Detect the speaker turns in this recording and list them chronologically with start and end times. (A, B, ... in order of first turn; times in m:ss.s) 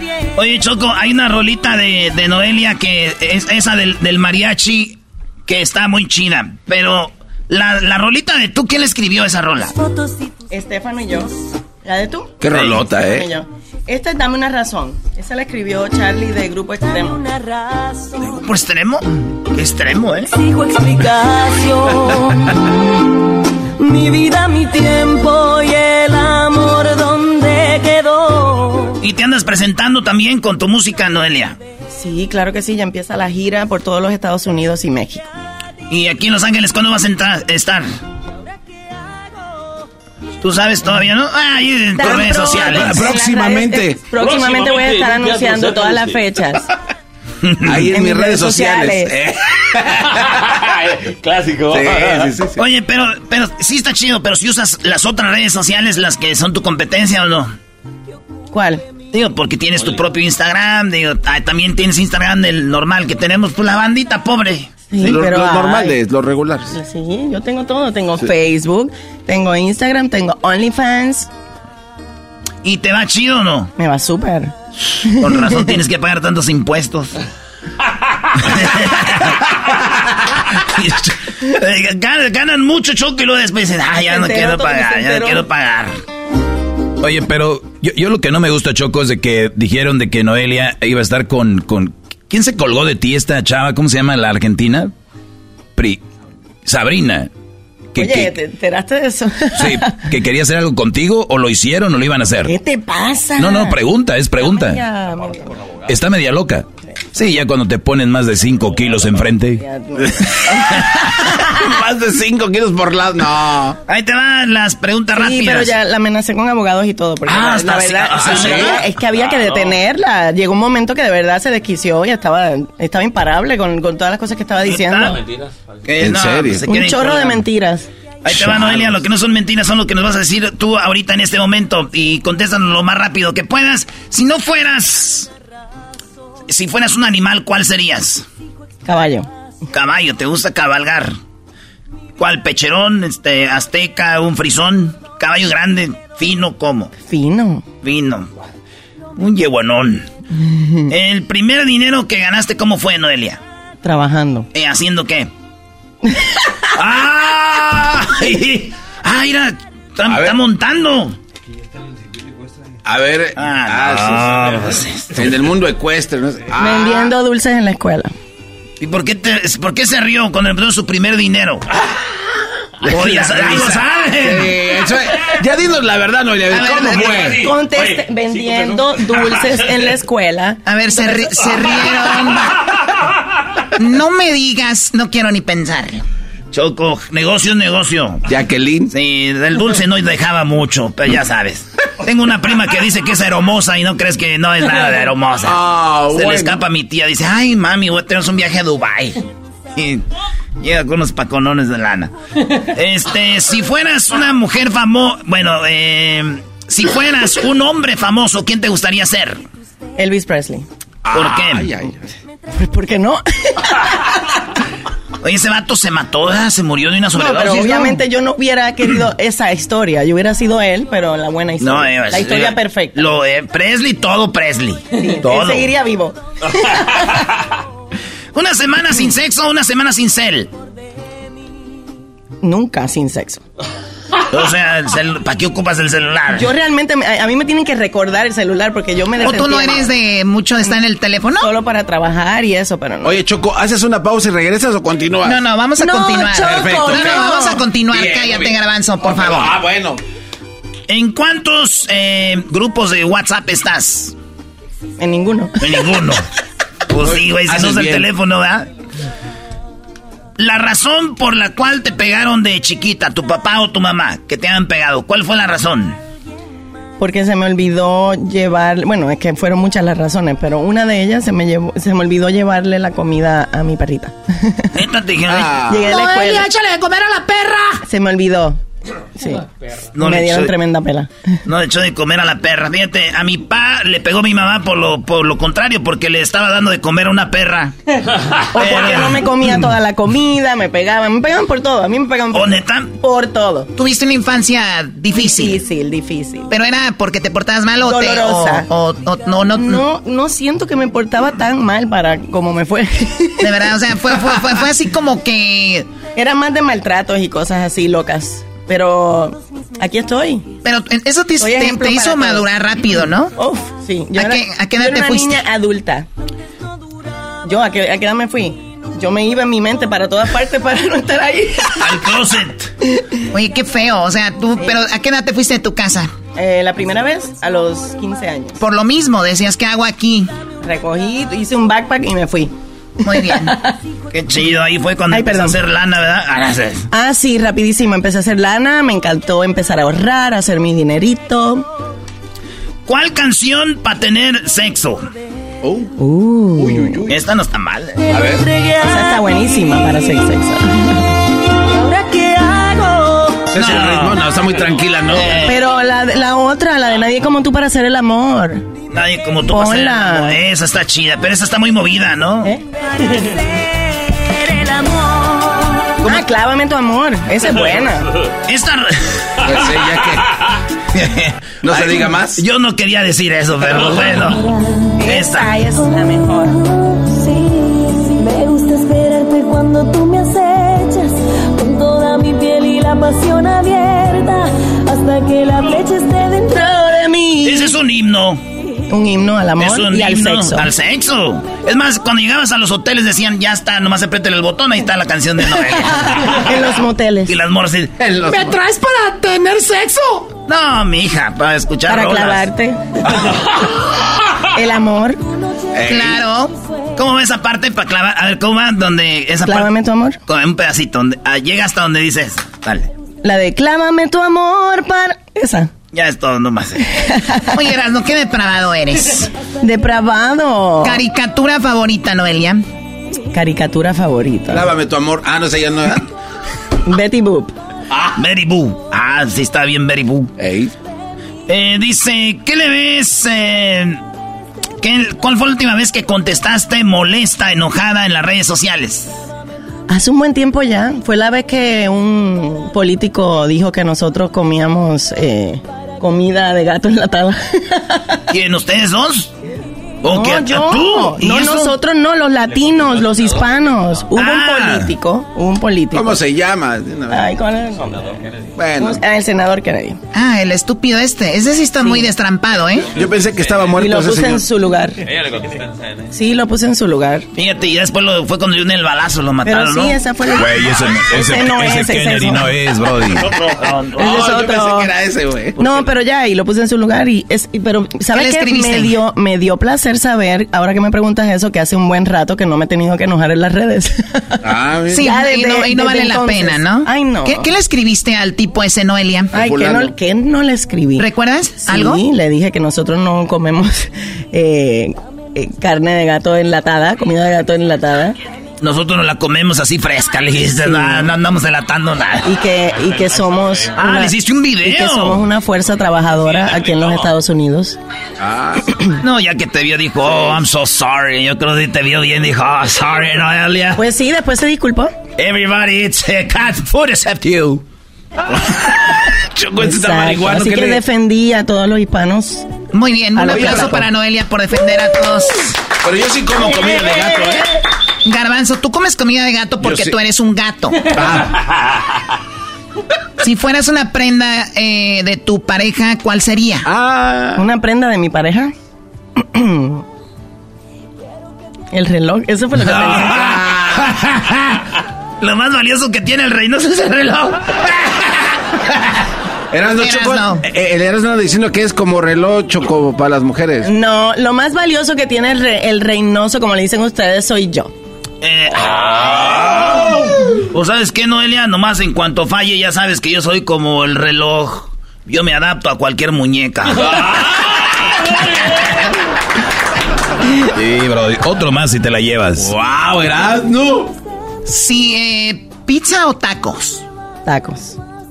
0:00.4-0:09.7 A
0:09.8-0:10.4 B
0:10.5-0:17.2 C
0:12.4-0:13.3 D
0:12.5-0:12.8 A
0:16.8-0:18.4 B
0:18.2-0:20.3 A
0:20.3-0:22.5 B
0:23.8-0:29.0 B
0:29.0-0:31.6 A
0:32.0-0:35.3 C
0:35.9-0:37.9 A
0:40.4-0:43.1 A
0:42.0-0:46.7 C
0:42.0-0:44.0 D
0:47.6-0:50.5 D
0:47.8-0:49.1 C
0:51.3-0:51.6 A
0:51.7-0:52.6 D
0:52.6-0:57.5 A
0:58.5-0:58.8 C
0:59.1-1:04.7 A
1:04.9-1:06.0 C
1:05.0-1:06.7 D
1:06.7-1:11.3 C
1:12.6-1:13.7 A
1:13.8-1:14.5 C
1:15.0-1:15.8 C
1:15.2-1:17.2 A
1:18.5-1:19.3 A
1:20.7-1:26.0 A
1:24.0-1:25.5 C
1:27.0-1:34.9 E
1:35.8-1:36.0 E
1:36.7-1:37.3 E
1:38.0-1:38.3 E
1:38.0-1:40.0 C
1:39.6-1:42.5 E
1:42.4-1:43.8 C
1:43.4-1:44.8 E
1:44.4-1:45.5 C
1:45.9-1:49.6 E
1:49.6-1:51.1 C
1:50.2-1:53.8 D
1:53.9-1:55.7 A
1:55.1-2:05.2 C
1:57.3-1:59.8 A
1:58.2-1:58.8 D
2:04.7-2:05.3 A
2:05.8-2:07.4 A
2:06.0-2:06.7 D
2:06.6-2:07.9 C
2:08.2-2:15.3 A
2:16.5-2:18.2 A
2:18.8-2:19.3 C
2:19.7-2:21.1 A
2:22.2-2:26.9 A
2:27.0-2:27.6 C
2:27.8-2:28.3 A
2:29.2-2:30.0 A
2:30.4-2:30.9 C
2:30.9-2:33.4 A
2:33.8-2:34.5 C
2:34.5-2:35.3 A
2:36.8-2:41.2 A
2:40.1-2:40.4 D
2:42.8-2:44.6 D
2:43.4-2:45.3 A
2:45.1-2:47.1 D
2:46.5-2:48.1 C
2:48.8-2:51.6 A
2:52.8-2:57.5 D
2:52.9-2:54.5 A
2:56.5-2:57.2 F
2:57.3-3:01.5 C
3:00.7-3:02.5 F
3:03.8-3:06.0 F
3:06.5-3:08.2 A
3:08.3-3:08.9 D
3:08.9-3:15.6 A
3:15.4-3:16.6 D
3:16.1-3:19.2 A
3:19.8-3:20.0 A
3:20.6-3:22.1 A
3:22.6-3:29.4 A
3:30.0-3:30.7 C
3:31.0-3:32.0 D
3:31.1-3:31.7 A
3:32.5-3:33.9 C
3:35.2-3:38.0 A
3:37.1-3:43.0 C
3:41.6-3:45.6 A
3:45.0-3:47.2 C
3:48.4-3:50.5 A
3:52.4-3:53.4 C
3:54.3-3:56.5 A
3:56.3-4:00.0 C
3:59.2-4:01.5 F
4:01.4-4:03.2 C
4:03.0-4:05.4 D
4:05.2-4:09.5 F
4:05.8-4:07.7 C
4:06.4-4:07.3 D
4:07.9-4:10.0 D
4:10.9-4:14.1 A
4:15.0-4:15.9 C
4:15.6-4:16.2 A
4:16.9-4:18.7 A
4:17.0-4:18.1 D
4:20.4-4:26.0 A
4:27.0-4:34.7 C
4:34.8-4:37.8 A
4:35.3-4:35.9 D
4:35.7-4:36.5 C
4:37.8-4:38.6 C
4:39.2-4:39.4 C
4:40.0-4:40.5 A
4:40.0-4:41.1 C
4:41.5-4:47.7 A
4:48.5-4:53.7 C
4:48.6-4:49.2 A
4:52.3-4:52.9 A
4:53.8-4:55.6 F
4:55.1-4:56.5 C
4:56.5-4:59.8 F
4:57.8-4:58.7 C
4:59.5-5:04.5 C
5:03.4-5:05.9 F
5:06.1-5:10.5 C
5:10.6-5:13.3 F
5:11.4-5:12.5 C
5:13.4-5:16.1 C
5:14.2-5:15.4 F
5:17.4-5:22.2 C
5:21.8-5:22.7 A
5:23.3-5:26.1 F
5:24.6-5:24.9 C
5:26.4-5:28.6 C
5:28.6-5:30.3 F
5:30.6-5:32.5 C
5:33.1-5:33.7 C
5:33.1-5:33.5 F
5:34.1-5:36.9 A
5:35.1-5:35.6 C
5:36.9-5:41.7 C
5:42.9-5:45.1 A
5:45.6-5:46.0 D
5:46.0-5:47.0 C
5:46.6-5:47.2 D
5:47.1-5:48.0 A
5:48.1-5:48.5 D
5:48.4-5:49.9 B
5:48.8-5:51.0 C
5:51.7-5:53.5 B
5:53.5-5:55.5 D
5:53.6-5:54.2 A
5:55.1-5:55.6 A
5:55.4-5:58.6 C
5:58.9-6:02.5 A
5:59.5-6:00.4 C
6:02.9-6:05.8 B
6:06.0-6:08.1 C
6:08.5-6:09.0 A
6:09.4-6:10.3 D
6:11.0-6:14.5 A
6:11.6-6:12.4 D
6:15.0-6:16.6 C
6:15.1-6:15.5 A
6:15.8-6:26.8 B
6:26.5-6:27.8 C
6:27.4-6:28.4 A
6:28.9-6:30.7 C
6:29.6-6:36.3 A
6:35.5-6:37.4 C
6:37.3-6:39.8 A
6:38.0-6:38.5 D
6:40.3-6:42.4 A
6:41.9-6:43.1 C
6:44.5-6:45.2 C
6:45.7-6:46.2 D
6:45.9-6:46.5 F
6:47.0-6:49.7 A
6:49.4-6:50.2 C
6:50.3-6:52.9 A
6:53.2-6:55.7 C
6:55.9-6:56.8 A
6:56.8-6:57.7 C
6:57.6-6:59.3 F
6:59.6-7:01.0 C
7:00.8-7:02.6 F
7:03.3-7:04.7 C
7:04.5-7:06.0 D
7:06.9-7:07.6 C
7:08.2-7:10.3 A
7:10.4-7:10.7 D
7:11.5-7:14.0 A
7:14.8-7:19.1 A
7:19.9-7:28.2 C
7:28.3-7:29.3 A
7:30.0-7:36.2 C
7:30.0-7:31.5 A
7:31.3-7:31.7 F
7:34.2-7:34.7 A
7:35.9-7:37.3 D
7:37.1-7:38.2 C
7:38.6-7:39.0 D
7:38.8-7:40.0 C
7:40.1-7:42.9 F
7:41.8-7:42.1 C
7:42.9-7:44.4 D
7:43.7-7:45.0 C
7:46.1-7:47.3 C
7:47.4-7:50.0 A
7:49.4-7:52.5 C
7:50.3-7:53.2 E
7:53.2-7:54.2 A
7:54.0-7:54.9 C
7:54.0-7:55.9 D
7:55.6-8:07.5 C
7:58.1-7:59.0 F
8:04.4-8:05.1 D
8:05.0-8:09.3 F
8:09.3-8:18.2 C
8:09.3-8:10.0 D
8:11.0-8:12.0 F
8:18.6-8:22.3 A
8:20.6-8:21.1 C
8:22.2-8:27.8 C
8:23.8-8:25.2 A
8:28.2-8:28.6 D
8:29.0-8:33.8 A
8:33.8-8:34.9 C
8:35.2-8:37.3 A
8:37.3-8:37.5 D
8:39.2-8:40.8 D
8:39.6-8:42.5 C
8:42.7-8:45.5 F
8:43.2-8:43.9 C
8:43.3-8:43.7 D
8:45.8-8:47.5 D
8:46.6-8:47.2 C
8:48.0-8:50.8 F
8:49.6-8:50.0 D
8:50.9-8:51.4 D
8:53.2-8:56.7 F
8:56.6-8:57.4 D
8:57.4-8:58.5 C
8:59.2-8:59.8 C
9:01.7-9:03.3 C
9:02.7-9:03.9 D
9:05.2-9:07.4 A
9:09.5-9:13.7 D
9:09.8-9:10.4 F
9:13.6-9:17.7 C
9:18.2-9:19.6 A
9:20.5-9:27.0 A
9:30.6-9:32.5 E
9:32.4-9:33.9 D
9:34.5-9:36.8 F
9:37.3-9:37.8 C